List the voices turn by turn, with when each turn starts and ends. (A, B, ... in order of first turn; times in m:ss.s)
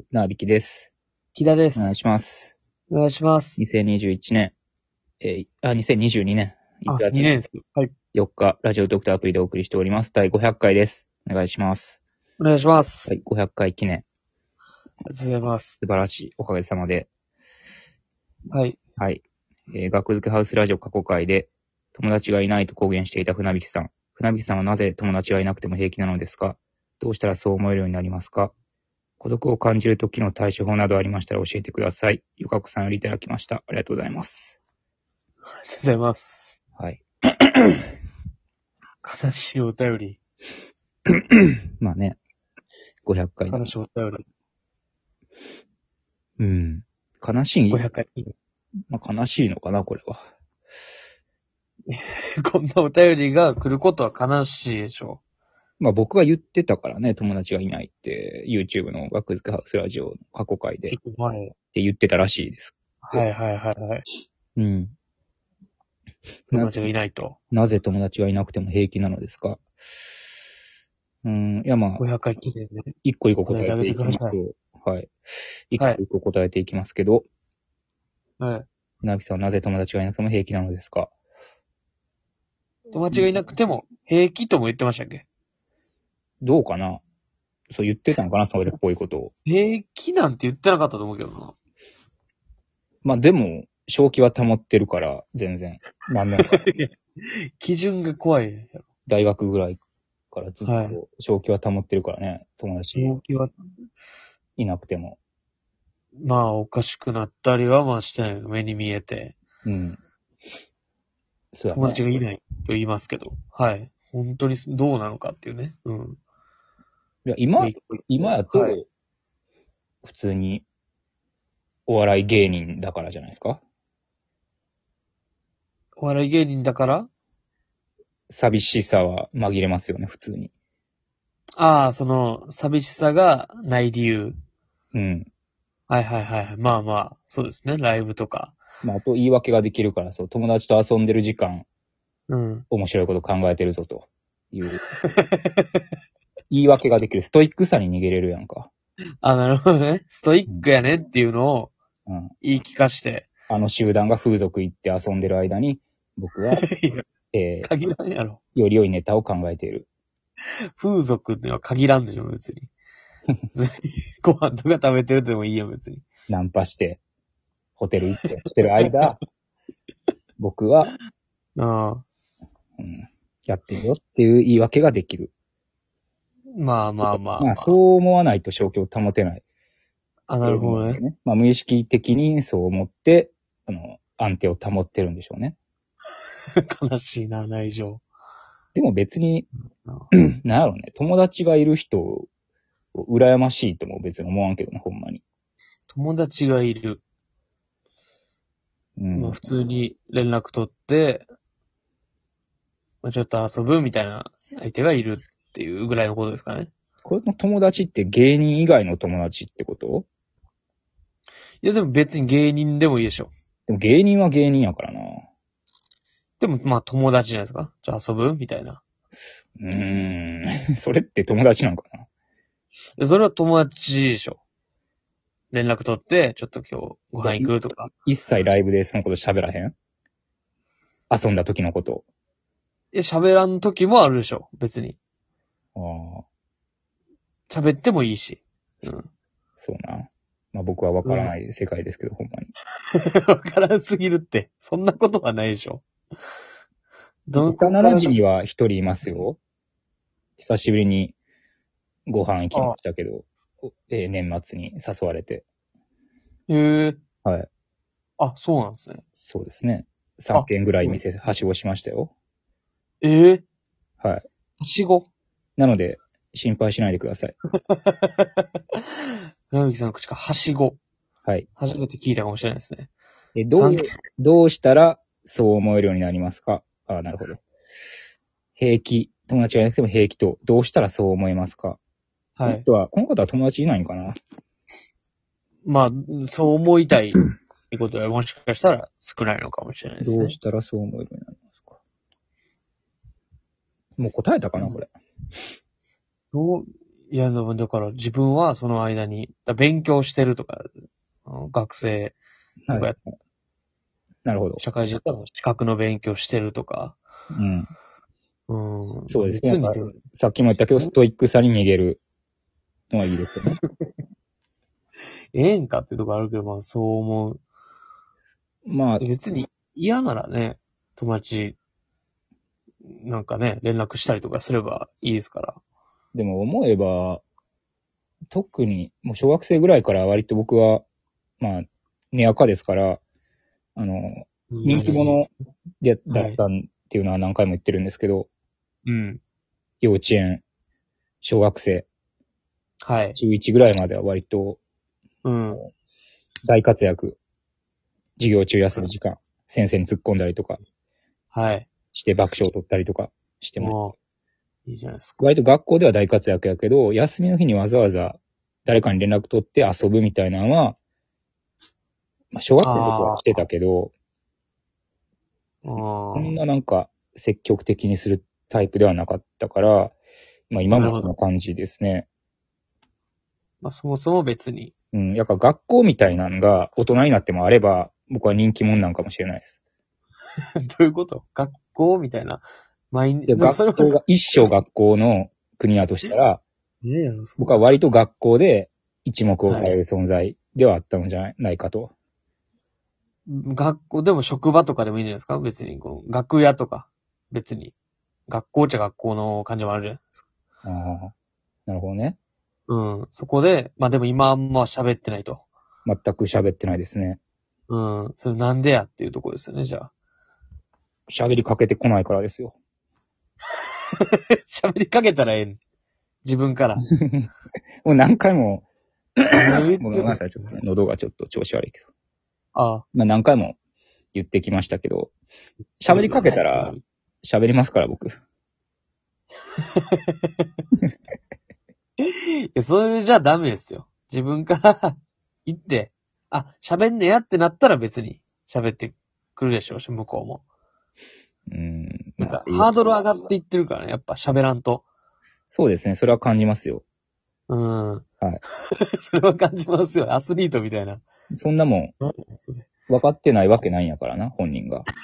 0:00.1-0:00.9 A
0:01.3-0:01.9 B
0:01.8-0:02.5 A
0:02.9-0:03.6 B
0:03.6-0:04.5 A
0:05.2-0:07.3 A
0:06.9-0:07.9 B
0:08.1-0:12.0 A
0:12.4-0:13.1 B
0:13.1-0:14.0 A
0:15.1-0:15.8 B
0:15.8-0:17.1 A
0:18.5-0:18.8 B
0:19.0-0:28.5 A
0:29.2-0:34.6 A
0:35.5-0:36.6 B
0:36.8-0:37.8 A
0:39.0-0:40.2 B
0:41.3-0:42.2 A
0:43.0-0:43.7 A
0:43.5-0:44.2 B
0:46.4-0:47.9 A
0:47.7-0:48.3 B
0:48.9-0:50.3 A
0:51.9-0:55.2 B
0:55.8-1:01.0 A
1:00.9-1:01.5 B
1:01.7-1:03.2 A
1:03.0-1:04.0 B
1:04.6-1:04.9 A
1:06.5-1:07.4 B
1:07.5-1:09.6 A
1:11.2-1:12.0 A
1:12.0-1:12.9 B
1:13.0-1:15.1 A
1:13.5-1:14.4 B
1:15.7-1:17.2 A
1:18.4-1:18.7 B
1:19.0-1:21.1 A
1:22.9-1:25.2 B
1:23.1-1:23.4 A
1:26.4-1:27.0 A
1:27.7-1:29.3 A
1:29.4-1:31.5 B
1:33.0-1:36.7 A
1:36.4-1:38.8 B
1:39.0-1:39.8 A
1:40.3-1:43.2 A
1:40.6-1:41.0 B
1:42.9-1:43.5 B
1:44.6-1:45.2 A
1:46.2-1:49.4 B
1:49.6-1:50.0 A
1:51.5-1:52.0 A
1:51.7-1:56.2 B
1:57.2-1:58.9 A
1:57.6-1:58.8 B
2:00.0-2:00.6 A
2:01.9-2:03.6 A
2:06.0-2:07.1 B
2:08.3-2:10.5 A
2:11.6-2:14.4 B
2:14.9-2:15.3 A
2:15.9-2:18.6 B
2:18.8-2:21.6 A
2:22.3-2:22.6 B
2:22.7-2:24.8 A
2:25.1-2:25.8 B
2:26.5-2:28.7 A
2:29.2-2:31.7 B
2:32.0-2:32.3 A
2:32.4-2:33.3 B
2:33.5-2:36.7 A
2:36.6-2:37.0 B
2:37.3-2:37.7 A
2:37.6-2:38.4 B
2:38.5-2:39.9 A
2:40.8-2:42.7 B
2:43.5-2:46.0 B
2:46.3-2:47.0 A
2:47.8-2:49.2 A
2:50.4-2:50.9 A
2:51.6-2:52.0 B
2:52.8-2:55.3 A
2:56.5-2:57.8 B
2:57.0-2:59.4 A
3:00.3-3:01.0 B
3:00.4-3:05.6 A
3:06.6-3:08.0 B
3:08.7-3:09.5 A
3:09.8-3:10.1 B
3:10.1-3:12.3 A
3:12.9-3:15.2 A
3:15.9-3:17.0 B
3:19.0-3:19.4 A
3:19.1-3:21.2 B
3:23.0-3:26.7 B
3:27.0-3:30.1 A
3:31.6-3:33.3 B
3:33.7-3:35.3 A
3:36.4-3:38.8 B
3:39.6-3:42.0 A
3:43.0-3:44.4 B
3:45.5-3:47.9 B
3:47.2-3:47.5 A
3:48.0-3:49.7 A
3:51.1-3:52.0 A
3:52.9-3:55.0 B
3:55.7-3:56.2 A
3:57.5-3:59.1 B
3:59.6-4:02.5 A
4:01.0-4:01.3 B
4:02.9-4:05.8 B
4:07.3-4:08.1 B
4:07.4-4:09.4 A
4:10.4-4:11.2 A
4:12.1-4:15.4 A
4:16.5-4:17.0 B
4:18.2-4:19.0 B
4:19.2-4:22.1 A
4:20.3-4:21.0 B
4:23.0-4:23.4 B
4:24.6-4:25.1 B
4:25.6-4:27.3 A
4:27.7-4:28.8 B
4:29.5-4:30.8 B
4:31.6-4:32.9 B
4:33.3-4:37.4 A
4:33.5-4:33.9 B
4:38.6-4:41.8 A
4:42.4-4:42.6 B
4:42.4-4:44.2 A
4:45.6-4:50.4 B
4:50.0-4:51.8 A
4:54.0-4:54.9 A
4:56.3-5:00.7 B
5:01.2-5:02.2 B
5:02.6-5:03.1 A
5:02.7-5:03.0 B
5:04.2-5:04.6 A
5:04.6-5:07.0 B
5:07.3-5:07.7 A
5:08.5-5:10.0 B
5:09.1-5:12.0 A
5:12.9-5:13.6 A
5:15.3-5:17.4 B
5:18.6-5:19.0 A
5:19.0-5:21.6 B
5:22.9-5:25.6 B
5:26.1-5:27.2 A
5:28.3-5:30.8 A
5:31.4-5:33.0 A
5:33.8-5:35.3 A
5:34.5-5:35.3 B
5:35.8-5:38.3 A
5:36.1-5:36.4 B
5:38.8-5:39.2 B
5:39.8-5:40.4 A
5:41.2-5:41.9 A
5:42.8-5:43.2 B
5:43.1-5:44.6 A
5:45.2-5:45.6 B
5:46.4-5:47.2 A
5:48.2-5:50.6 A
5:51.3-5:51.7 B
5:51.9-5:53.8 A
5:53.6-5:53.9 B
5:54.6-5:55.2 B
5:55.2-6:00.8 A
6:02.3-6:03.9 A
6:02.6-6:03.4 B
6:05.6-6:06.4 B
6:05.8-6:09.9 A
6:10.5-6:12.1 A
6:10.7-6:11.1 B
6:13.6-6:14.7 B
6:14.9-6:19.5 A
6:20.6-6:23.9 B
6:23.3-6:26.4 A
6:26.8-6:27.6 B
6:27.4-6:31.9 A
6:29.4-6:29.7 B
6:33.3-6:37.7 B
6:38.3-6:40.2 B
6:40.6-6:41.1 A
6:41.7-6:42.2 A
6:42.7-6:45.4 B
6:45.8-6:47.2 A
6:47.7-6:49.9 B
6:51.1-6:52.6 A
6:54.0-6:55.6 B
6:56.2-6:56.8 B
6:57.0-6:57.3 A
6:57.8-6:58.6 A
6:59.2-7:01.8 A
6:59.3-7:00.2 B
7:02.5-7:02.8 B
7:02.9-7:03.6 A
7:04.1-7:05.1 A
7:05.8-7:08.2 A
7:05.9-7:06.8 B
7:09.6-7:10.4 B
7:12.0-7:20.4 B
7:21.5-7:22.7 A
7:22.2-7:24.8 B
7:25.5-7:26.8 A
7:27.5-7:28.0 B
7:28.7-7:31.0 B
7:31.3-7:31.9 A
7:32.0-7:32.7 B
7:32.9-7:34.8 A